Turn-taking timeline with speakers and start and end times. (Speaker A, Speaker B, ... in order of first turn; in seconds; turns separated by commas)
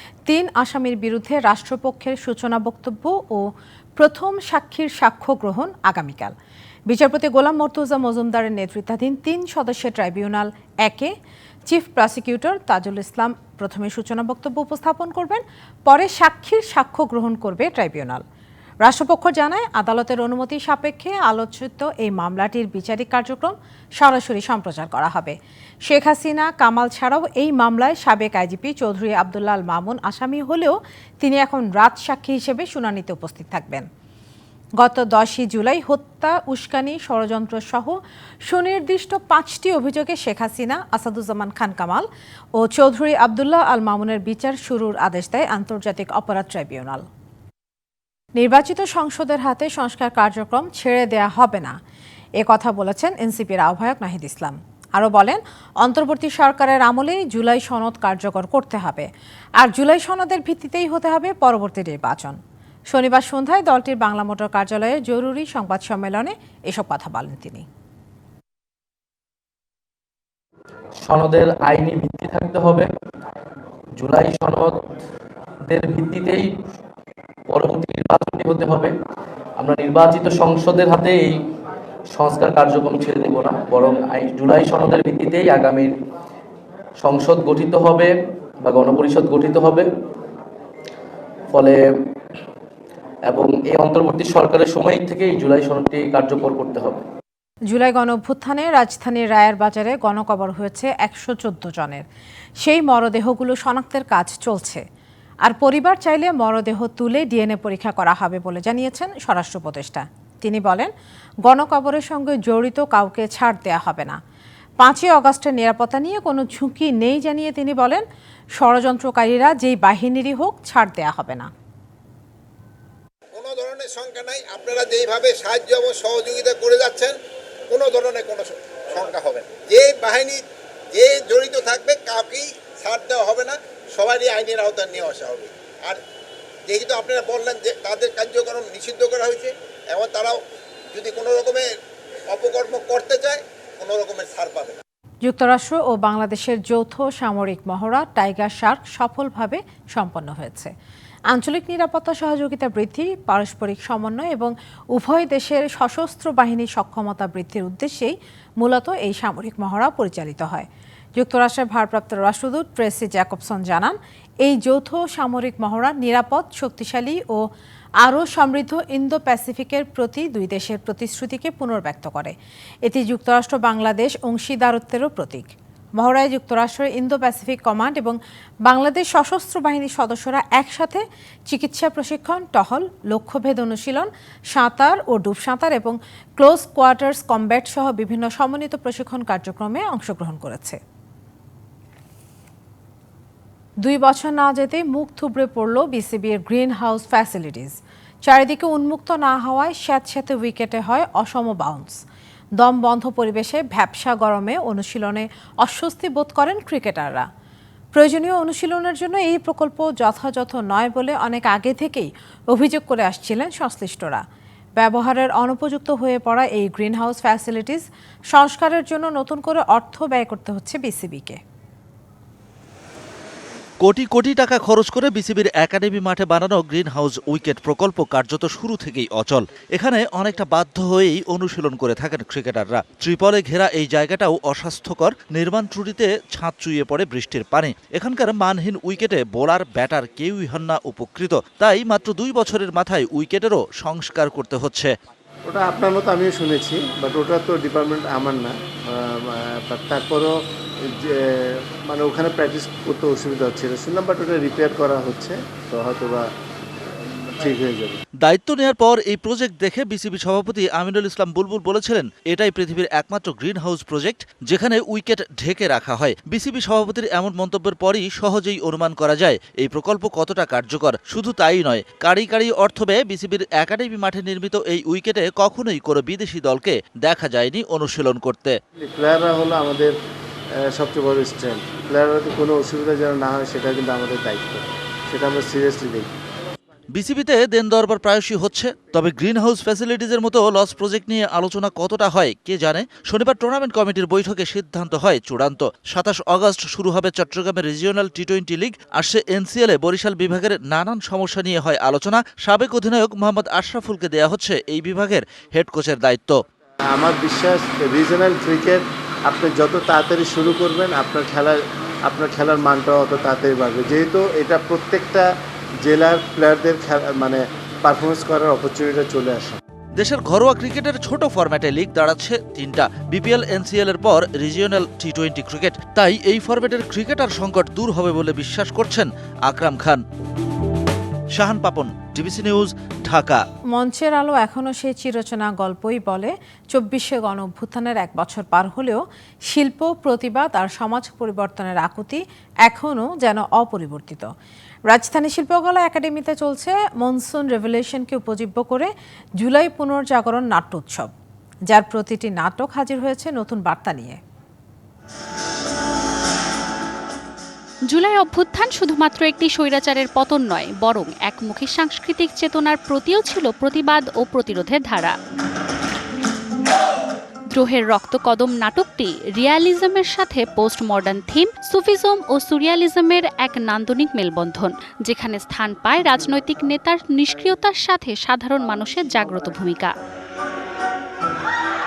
Speaker A: 0.3-6.3, Speaker A: 6.9-11.1, Speaker A: 11.7-18.2, Speaker A: 18.8-33.9, Speaker A: 34.8-42.1, Speaker A: 42.6-47.0, Speaker A: 48.4-51.8, Speaker A: 52.4-59.1, Speaker A: 59.6-62.4, Speaker A: 62.9-67.7, Speaker B: 71.0-72.9, Speaker B: 74.0-74.8, Speaker B: 75.6-76.5, Speaker B: 77.5-79.0, Speaker B: 79.6-81.4, Speaker B: 82.1-86.0, Speaker B: 87.0-89.9, Speaker B: 91.5-91.9, Speaker B: 93.3-97.0, Speaker A: 97.7-102.0, Speaker A: 102.6-104.8, Speaker A: 105.5-110.9, Speaker A: 111.5-114.2, Speaker A: 114.8-118.0, Speaker A: 118.6-121.5, Speaker C: 123.3-127.2, Speaker C: 127.7-130.4, Speaker C: 130.9-136.0, Speaker C: 136.7-140.4, Speaker C: 140.9-141.7, Speaker C: 142.3-144.8, Speaker A: 145.2-150.7, Speaker A: 151.3-167.4, Speaker A: 168.0-172.3, Speaker A: 172.9-190.8, Speaker A: 193.8-202.0, Speaker A: 202.6-207.3, Speaker A: 207.9-214.2, Speaker A: 214.8-221.4, Speaker D: 223.8-244.9, Speaker E: 245.5-250.3, Speaker E: 250.9-256.3, Speaker E: 257.3-258.0, Speaker D: 258.2-278.6, Speaker E: 278.8-279.9, Speaker E: 280.7-286.1, Speaker D: 286.9-306.4, Speaker E: 306.9-315.3, Speaker E: 315.8-319.6, Speaker D: 320.0-330.0, Speaker D: 331.4-333.4, Speaker A: 333.8-344.3, Speaker A: 344.9-351.1, Speaker A: 351.7-354.2, Speaker F: 357.9-365.1, Speaker F: 367.5-379.9